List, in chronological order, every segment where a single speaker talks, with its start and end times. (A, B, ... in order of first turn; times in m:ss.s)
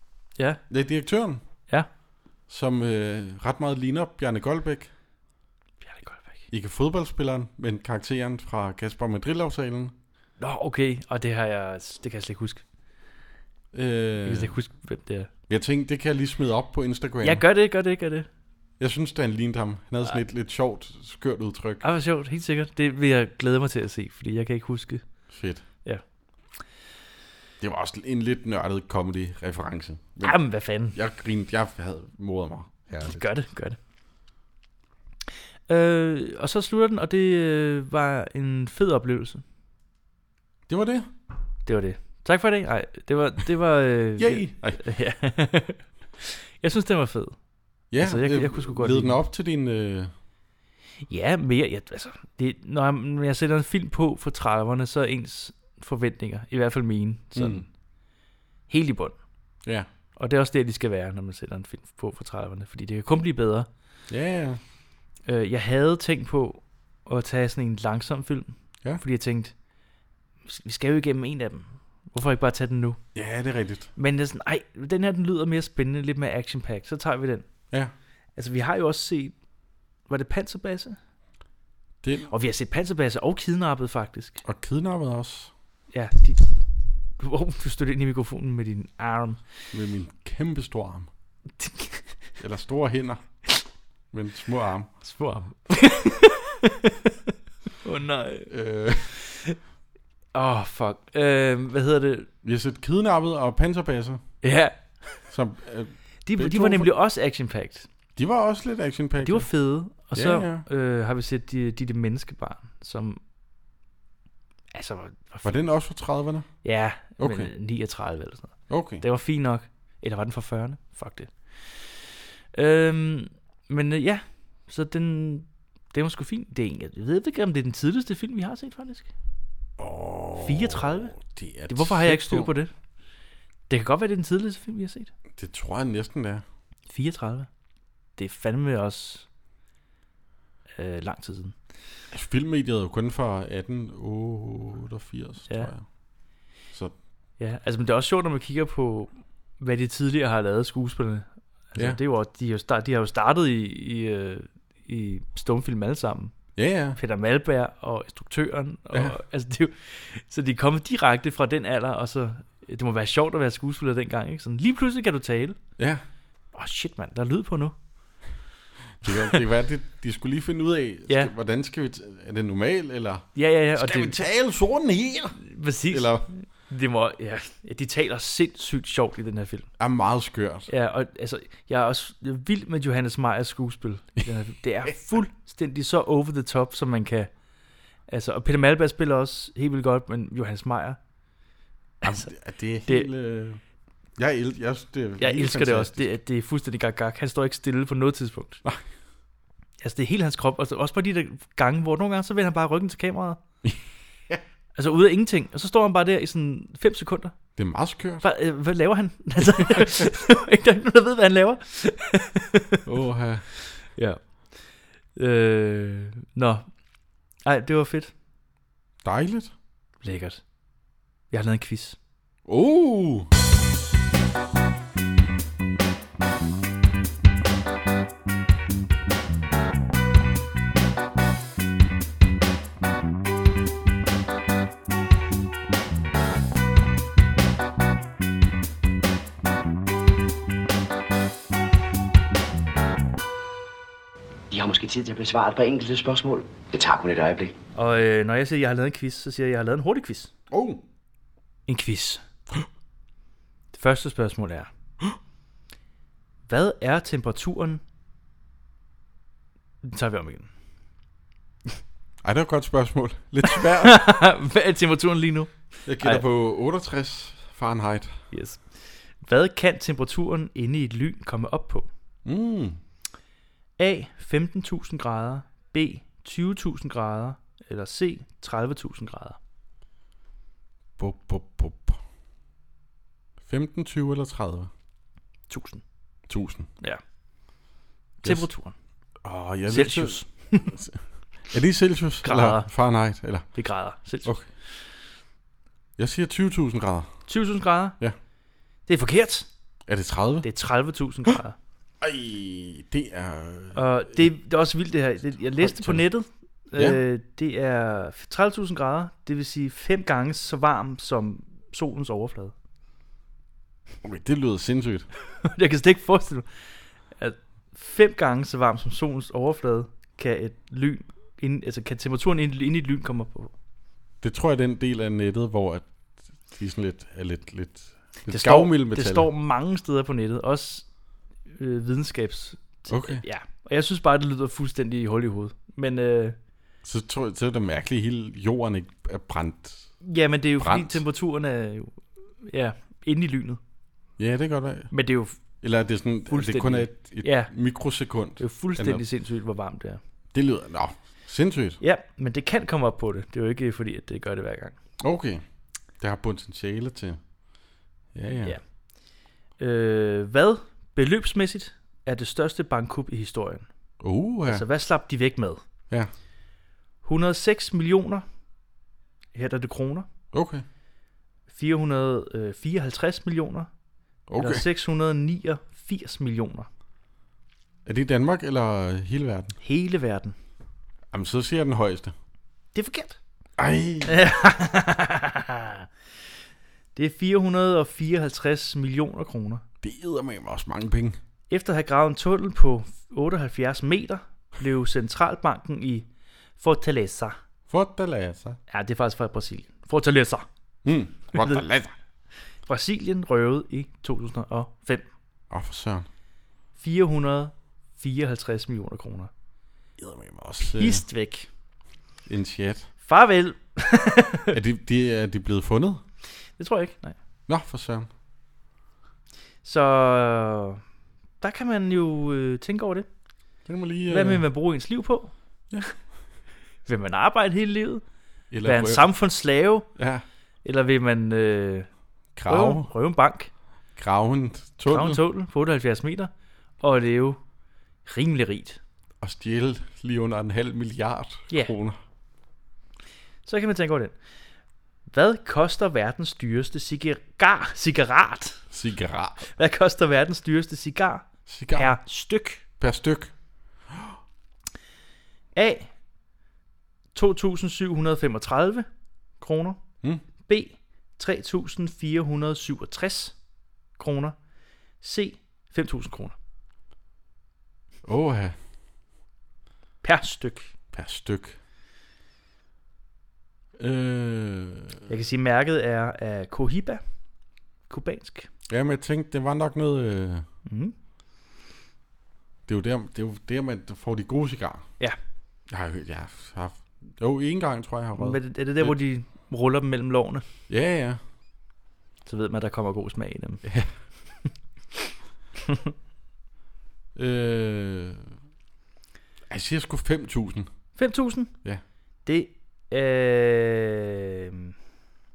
0:00.7-0:01.4 A
0:02.5-0:04.9 A
0:05.8-0:06.4 B
0:06.5-0:09.9 A
0:10.4-0:12.6 B
0:13.7-0:14.5 A
0:14.2-0:15.3 B
0:15.5-0:17.4 A
0:17.2-0:18.3 B
0:18.8-0:21.8 A
0:21.8-0:25.0 B
0:25.3-0:25.6 A
0:27.6-0:30.4 A
0:30.2-0:31.0 B
0:30.9-0:33.2 A
0:32.9-0:33.8 B
0:35.7-0:39.4 B
0:40.7-0:41.1 A
0:41.6-0:47.4 B
0:44.2-0:44.8 A
0:47.9-0:50.1 A
0:48.0-0:49.2 B
0:51.1-0:57.7 B
0:57.3-0:57.6 A
0:58.7-0:59.2 B
1:00.2-1:03.7 B
1:04.1-1:04.6 A
1:05.3-1:09.5 B
1:10.4-1:13.0 B
1:13.1-1:13.9 A
1:14.0-1:17.4 B
1:18.4-1:19.3 B
1:20.1-1:21.0 B
1:22.0-1:22.3 A
1:22.3-1:24.4 B
1:24.4-1:25.5 A
1:25.9-1:26.6 B
1:27.2-1:29.4 B
1:29.7-1:31.1 A
1:31.6-1:32.1 B
1:32.4-1:33.2 A
1:34.1-1:34.9 A
1:35.0-1:36.9 B
1:37.8-1:38.5 B
1:38.5-1:39.1 A
1:39.2-1:39.6 B
1:40.3-1:42.3 B
1:42.4-1:44.2 A
1:44.4-1:45.2 B
1:45.3-1:46.9 A
1:46.2-1:47.9 B
1:48.2-1:49.5 A
1:49.2-1:53.2 B
1:50.1-1:50.6 A
1:54.7-1:55.6 B
1:55.4-1:56.5 A
1:56.6-2:02.0 B
1:57.2-1:57.5 A
1:58.7-1:59.0 A
2:02.5-2:09.1 B
2:09.8-2:12.5 A
2:10.4-2:11.2 B
2:11.7-2:12.7 B
2:13.7-2:15.1 B
2:15.3-2:16.4 A
2:16.9-2:17.5 B
2:18.2-2:19.3 B
2:20.8-2:21.5 B
2:22.1-2:25.8 A
2:27.4-2:36.3 B
2:36.6-2:37.0 A
2:37.0-2:45.6 B
2:38.9-2:39.2 A
2:45.8-2:46.0 A
2:46.5-2:47.7 B
2:49.0-2:56.3 A
2:49.1-2:49.4 B
2:53.4-2:54.2 B
2:55.4-2:59.7 B
2:59.8-3:00.7 A
3:00.7-3:07.3 B
3:04.9-3:05.2 A
3:08.1-3:11.0 B
3:12.0-3:12.3 B
3:12.0-3:13.6 A
3:14.2-3:16.2 A
3:15.2-3:18.6 B
3:19.8-3:23.4 B
3:24.8-3:27.3 B
3:27.6-3:28.2 A
3:28.2-3:32.8 B
3:29.4-3:30.1 A
3:32.8-3:33.4 A
3:33.7-3:34.4 B
3:35.1-3:36.6 B
3:37.4-3:38.1 B
3:39.0-3:39.5 A
3:40.0-3:40.4 B
3:41.3-3:42.0 B
3:42.4-3:43.3 A
4:04.5-4:07.5 C
4:07.7-4:10.3 B
4:10.5-4:10.8 A
4:11.7-4:12.2 B
4:13.7-4:14.7 B
4:16.5-4:17.8 B
4:19.8-4:20.5 B
4:22.2-4:24.0 A
4:23.4-4:26.2 B
4:25.8-4:28.2 A
4:28.3-4:31.9 B
4:32.2-4:32.8 A
4:33.8-4:39.4 B
4:41.0-4:42.0 A
4:43.4-4:44.7 A
4:45.5-4:45.8 B
4:46.3-4:46.7 A
4:48.2-4:48.5 A
4:48.2-4:48.7 B
4:49.2-4:53.5 A
4:49.7-4:50.7 B
4:52.2-4:52.7 B
4:53.5-4:54.3 B
4:56.0-4:57.1 A
4:57.3-4:58.0 B
4:58.9-4:59.5 B
4:59.9-5:00.5 A
5:00.4-5:01.6 B
5:02.0-5:04.3 A
5:03.7-5:12.5 B
5:05.6-5:06.0 A
5:06.8-5:07.0 A
5:14.0-5:15.1 A
5:15.4-5:16.5 B
5:17.2-5:23.5 B
5:24.2-5:25.8 A
5:26.4-5:29.3 A
5:28.2-5:30.8 B
5:31.5-5:36.4 B
5:32.9-5:33.2 A
5:36.8-5:39.9 A
5:40.0-5:43.6 B
5:40.6-5:41.0 A
5:44.2-5:44.9 A
5:44.9-5:45.3 B
5:45.6-5:49.0 A
5:46.3-5:47.5 B
5:48.4-5:50.0 B
5:50.3-5:51.8 A
5:51.8-5:54.7 B
5:55.0-5:55.4 A
5:56.0-5:57.2 A
5:58.1-5:58.6 A
5:59.6-6:03.7 B
6:04.0-6:04.6 A
6:04.5-6:05.6 B
6:07.0-6:08.2 B
6:09.3-6:10.1 B
6:10.3-6:10.6 A
6:11.5-6:13.7 B
6:14.3-6:14.6 A
6:14.4-6:16.7 B
6:17.8-6:19.6 A
6:19.6-6:20.3 B
6:21.1-6:22.1 A
6:22.7-6:23.2 B
6:23.6-6:24.2 A
6:24.0-6:25.9 B
6:27.0-6:29.6 B
6:29.8-6:31.2 A
6:31.5-6:36.1 B
6:36.6-6:37.4 B
6:37.7-6:38.6 A
6:38.7-6:40.4 B
6:40.8-6:41.9 A
6:41.3-6:41.6 B
6:42.7-6:45.0 B
6:45.5-6:46.1 A
6:46.8-6:49.3 B
6:50.0-6:51.0 A
6:50.6-6:51.5 B
6:52.2-6:52.9 A
6:53.0-6:54.6 B
6:54.5-6:56.0 A
6:56.6-6:57.2 B
6:57.5-6:58.1 A
6:59.6-7:00.8 B
7:01.4-7:03.1 B
7:03.6-7:04.4 A
7:04.1-7:05.3 B
7:06.8-7:08.0 B
7:08.5-7:09.1 A
7:08.6-7:09.9 B
7:10.0-7:10.2 A
7:10.6-7:11.9 B
7:12.3-7:12.9 A
7:12.5-7:13.5 B
7:14.0-7:15.2 A
7:14.9-7:17.4 B
7:18.0-7:18.8 B
7:19.2-7:22.0 A
7:23.4-7:24.1 B
7:25.1-7:28.6 B
7:28.7-7:29.5 A
7:29.6-7:32.6 B
7:31.5-7:31.9 A
7:32.8-7:33.3 A
7:35.6-7:35.9 B
7:37.1-7:38.9 B
7:39.4-7:39.8 B
7:40.4-7:43.4 B
7:44.0-7:44.4 B
7:45.0-7:46.3 B
7:48.0-7:48.6 A
7:50.0-7:50.7 B
7:50.9-7:51.6 A
7:53.8-7:55.0 A
7:55.1-7:57.0 B
7:57.9-7:58.5 B
7:58.7-8:00.4 A
8:00.7-8:00.9 B
8:02.7-8:04.8 A
8:05.7-8:09.0 A
8:08.2-8:10.4 B
8:10.7-8:11.2 A
8:12.2-8:13.6 B
8:13.6-8:13.9 A
8:17.1-8:18.3 A
8:19.5-8:20.7 A
8:21.0-8:21.5 B
8:22.2-8:24.7 B